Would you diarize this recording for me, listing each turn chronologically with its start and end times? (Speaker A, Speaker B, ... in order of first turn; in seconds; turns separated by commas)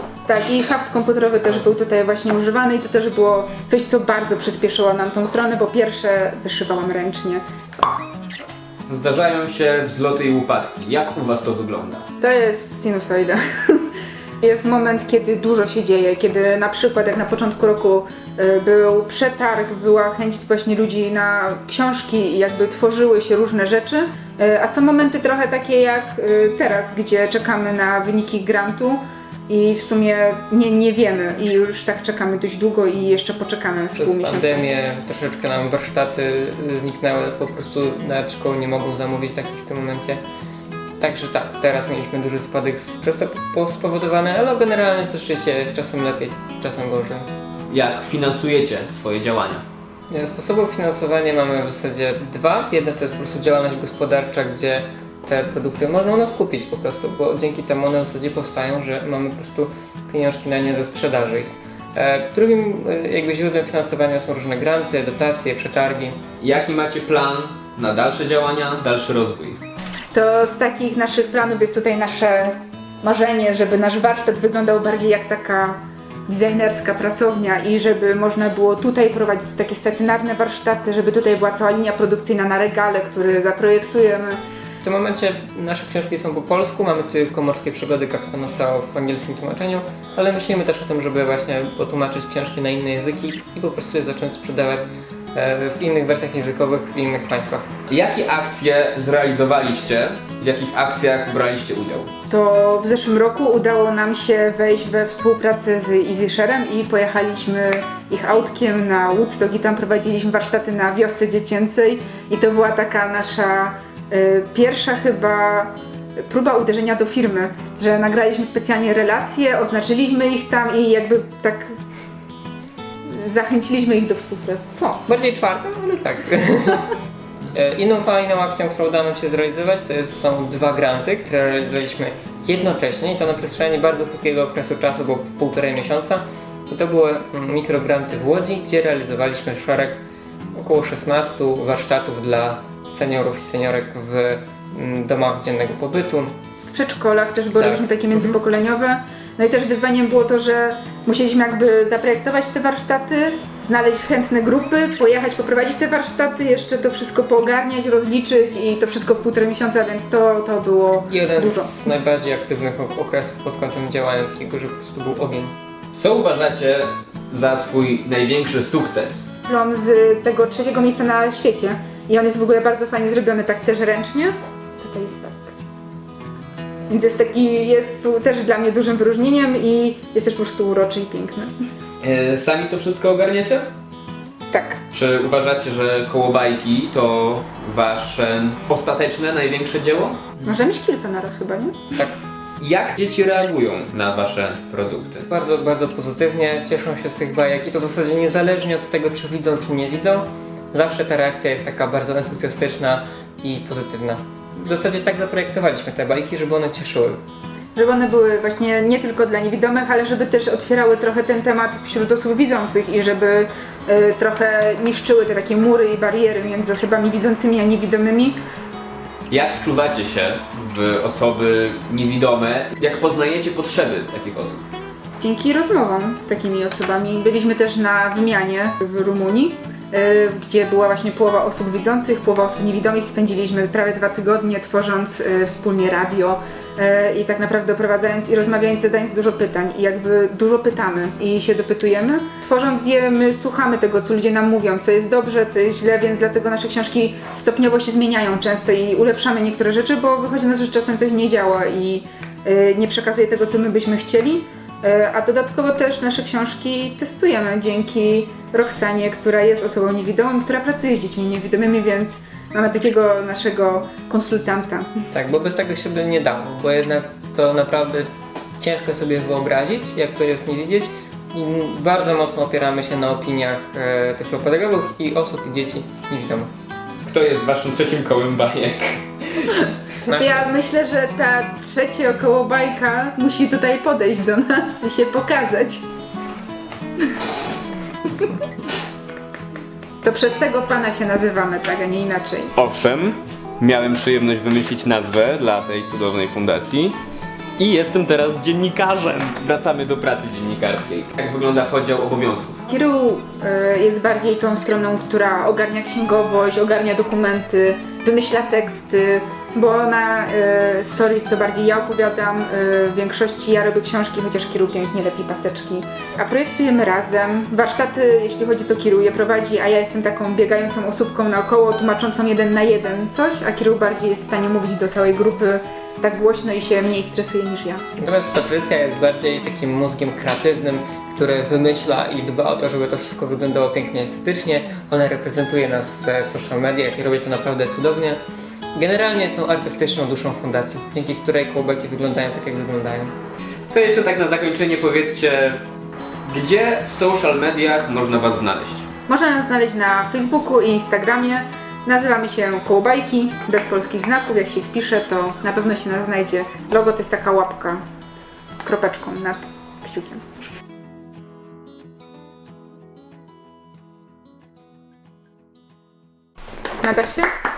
Speaker A: 0.2-7.4, Speaker B: 8.9-12.1, Speaker A: 12.2-34.7, Speaker C: 34.0-40.2, Speaker C: 41.0-47.3, Speaker B: 47.7-49.6, Speaker C: 50.1-66.2, Speaker B: 66.4-69.6, Speaker A: 70.1-84.4, Speaker C: 84.8-97.7, Speaker B: 97.9-102.1, Speaker A: 102.3-121.8, Speaker A: 123.0-125.0, Speaker C: 125.1-126.9, Speaker C: 127.5-140.0, Speaker C: 140.5-146.3, Speaker A: 146.7-161.8, Speaker C: 147.6-148.4, Speaker C: 161.1-165.5, Speaker B: 165.9-169.3, Speaker A: 169.5-175.5, Speaker A: 176.9-181.5, Speaker B: 182.0-183.7, Speaker A: 184.5-184.8, Speaker B: 184.9-190.3, Speaker A: 190.4-192.0, Speaker B: 192.6-195.2, Speaker C: 195.3-207.2, Speaker A: 207.8-218.4, Speaker B: 219.3-224.6, Speaker A: 225.2-265.0, Speaker C: 265.1-268.1, Speaker C: 268.6-276.5, Speaker B: 277.0-279.7, Speaker C: 280.0-280.5, Speaker A: 280.1-285.8, Speaker A: 290.0-292.5, Speaker B: 292.6-297.0, Speaker B: 297.6-302.6, Speaker A: 302.7-327.8, Speaker C: 328.0-338.2, Speaker C: 338.7-343.1, Speaker B: 343.7-345.6, Speaker B: 346.2-348.9, Speaker A: 349.1-357.8, Speaker A: 358.6-360.2, Speaker A: 366.8-367.3